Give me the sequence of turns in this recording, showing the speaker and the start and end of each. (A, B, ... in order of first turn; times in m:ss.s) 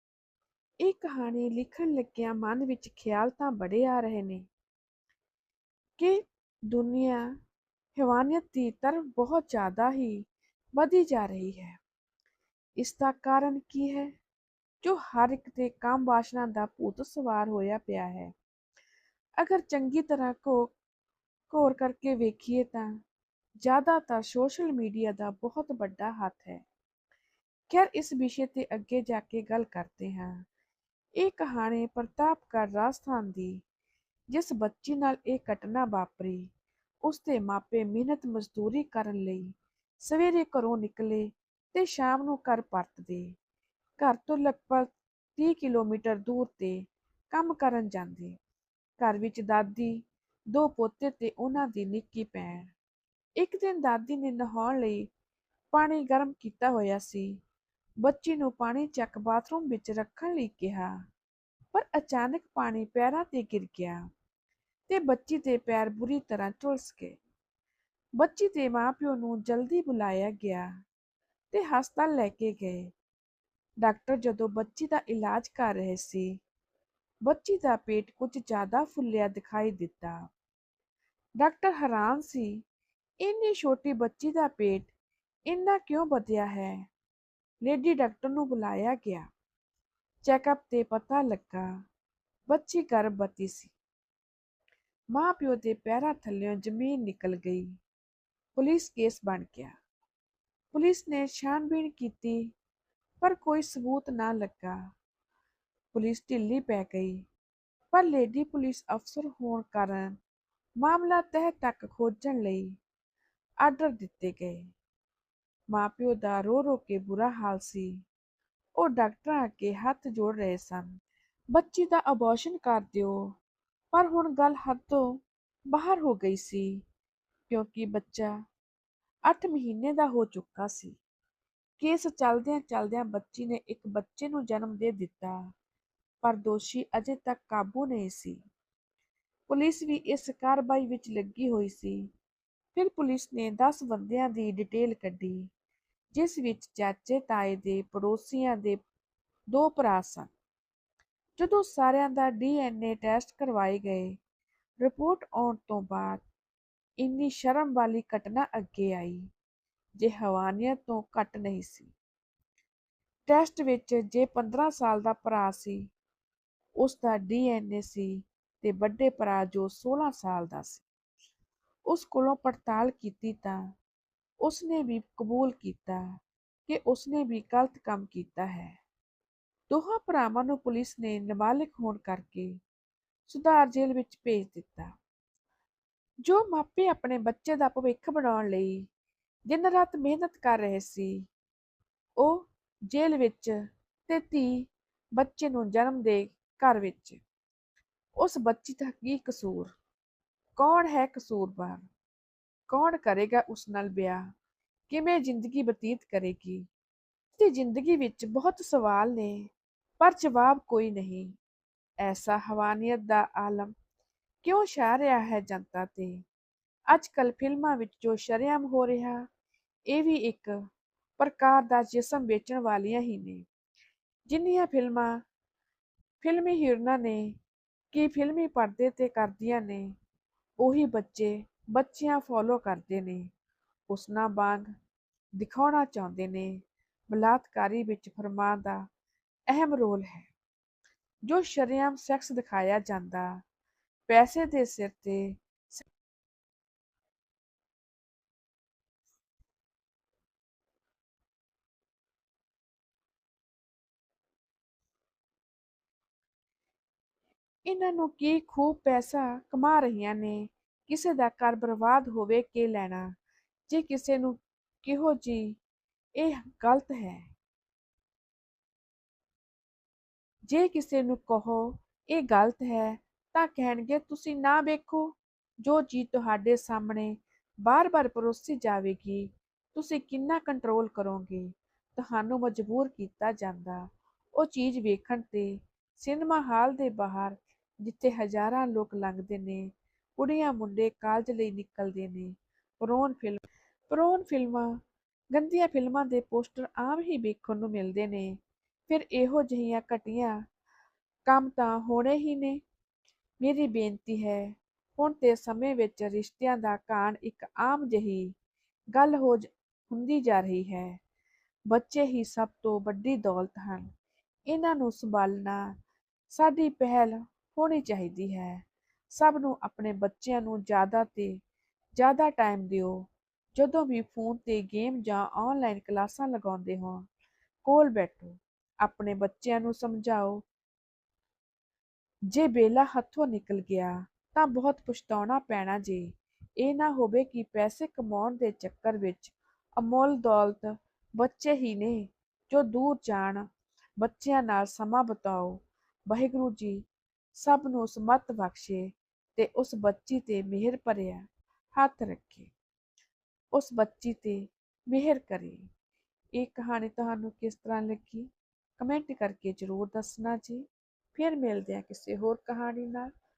0:00.8-0:04.5 A
0:06.0-0:07.3 A
0:08.0-0:11.8 A
0:12.8-0:14.2 A
0:14.8-0:18.3 A
0:19.4-0:20.7 A
0:21.5-0:22.9 A
0:23.6-0:26.6 A
0:27.7-0:30.4 A
0:31.2-0:33.6 A
0:34.3-0:36.5 A
0:37.0-0:43.3 A
0:44.0-0:48.4 A
0:49.0-0:50.0 A
0:50.5-0:52.7 A
0:53.4-0:55.1 A
0:55.7-0:57.3 A
0:58.0-1:00.9 A
1:01.7-1:04.0 A
1:04.9-1:07.2 A
1:08.2-1:10.7 A
1:11.5-1:12.9 A
1:13.8-1:16.3 A
1:17.2-1:20.2 A
1:21.4-1:22.6 A
1:23.2-1:24.9 A
1:25.5-1:26.8 A
1:27.6-1:29.3 A
1:30.2-1:31.7 A
1:32.5-1:33.7 A
1:35.1-1:37.8 A
1:38.6-1:39.8 A
1:40.7-1:42.5 A
1:43.2-1:44.8 A
1:45.9-1:47.2 A
1:47.9-1:50.2 A
1:50.8-1:52.8 A
1:53.6-1:54.6 A
1:55.7-1:58.0 A
1:58.8-2:00.9 A
2:01.5-2:03.2 A
2:03.9-2:05.1 A
2:05.7-2:06.7 A
2:07.5-2:08.3 A
2:09.3-2:11.0 A
2:11.8-2:15.4 A
2:16.2-2:18.4 A
2:19.5-2:22.0 A
2:22.8-2:25.5 A
2:26.1-2:28.8 A
2:29.5-2:30.3 A
2:31.4-2:34.2 A
2:34.8-2:36.2 A
2:37.0-2:39.3 A
2:40.0-2:41.9 A
2:43.3-2:45.9 A
2:46.8-2:50.9 A
2:51.9-2:53.6 A
2:54.4-2:56.0 A
2:56.7-2:58.8 A
2:59.7-3:02.6 A
3:03.3-3:04.9 A
3:06.2-3:08.9 A
3:09.5-3:11.3 A
3:12.2-3:17.2 A
3:18.2-3:19.7 A
3:20.6-3:21.8 A
3:22.7-3:24.2 A
3:24.9-3:26.7 A
3:27.4-3:29.5 A
3:30.0-3:31.3 A
3:32.0-3:33.7 A
3:34.4-3:36.2 A
3:36.9-3:39.2 A
3:39.9-3:40.6 A
3:41.2-3:43.4 A
3:44.3-3:45.2 A
3:46.2-3:47.4 A
3:47.9-3:49.9 A
3:50.6-3:53.3 A
3:53.9-3:54.7 A
3:55.4-3:56.6 A
3:57.1-3:58.9 A
3:59.5-4:00.3 A
4:01.3-4:03.4 A
4:04.1-4:05.8 A
4:17.7-4:23.1 A
4:23.7-4:25.6 A
4:26.2-4:27.2 A
4:30.5-4:54.8 A
4:55.3-4:58.4 A
4:58.9-5:00.4 A
5:01.3-5:02.6 A
5:03.4-5:08.3 A
5:08.9-5:11.0 A
5:11.7-5:13.9 A
5:14.5-5:15.6 A
5:16.3-5:21.4 A
5:22.0-5:27.0 A
5:27.6-5:30.4 A
5:32.3-5:43.4 A
5:44.0-5:46.8 A
5:47.4-5:52.5 A
5:53.5-5:55.7 A
5:56.4-6:03.1 A